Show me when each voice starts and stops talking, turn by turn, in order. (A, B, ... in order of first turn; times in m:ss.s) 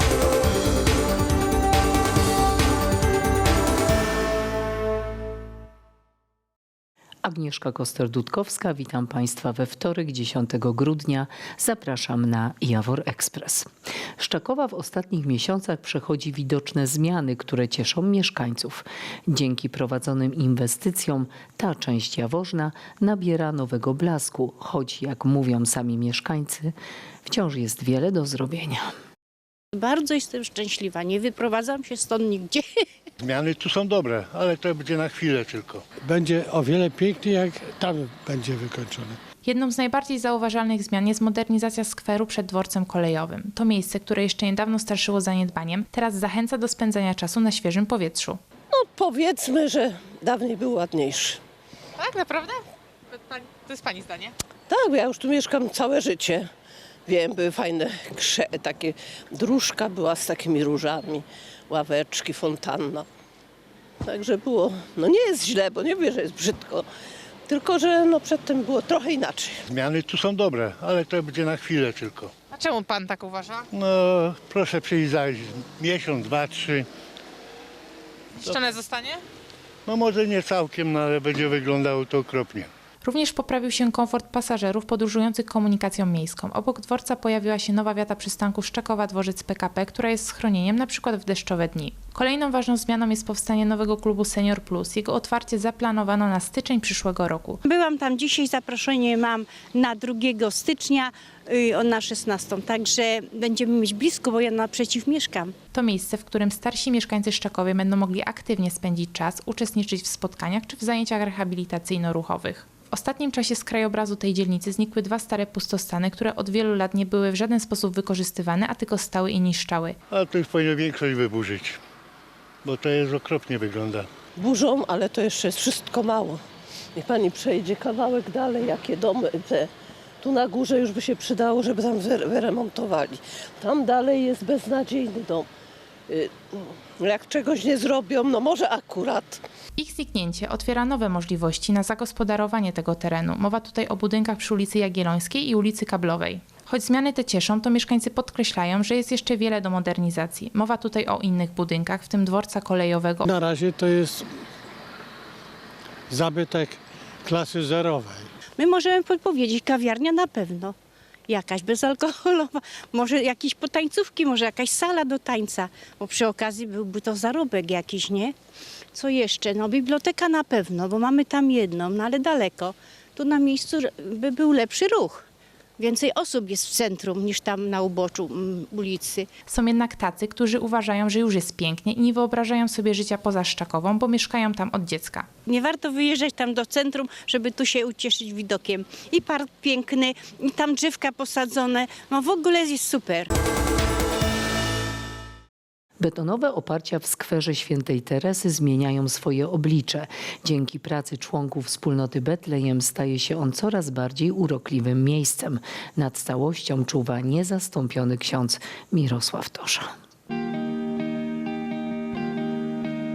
0:07.2-0:13.7 A
0:14.2-0:26.7 A
0:27.2-0:28.9 A
0:29.7-0:32.8 B
0:33.2-0:35.9 C
0:36.0-0:39.2 D
0:39.4-0:48.4 E
0:48.7-0:51.4 F
0:52.0-0:54.3 G
0:54.7-0:56.5 F
0:57.1-1:03.1 F
1:04.0-1:06.8 F
1:07.5-1:09.6 F
1:09.7-1:12.3 C
1:12.5-1:13.7 G
1:13.7-1:16.9 C
1:18.4-1:19.2 G
1:19.9-1:22.7 C
1:23.0-1:37.6 E
1:37.6-1:45.6 B
1:45.7-2:00.0 E
2:00.1-2:01.8 C
2:02.6-2:04.1 C
2:04.4-2:06.4 F
2:07.0-2:09.7 F
2:10.2-2:15.5 F
2:16.1-2:19.4 F
2:19.8-2:33.3 E
2:33.2-2:34.3 D
2:36.1-2:38.3 D
2:38.6-2:40.8 B
2:41.3-2:48.4 B
2:48.9-2:55.2 B
2:55.8-2:59.3 B
2:59.5-3:05.3 E
3:05.5-3:13.3 B
3:16.0-3:29.9 A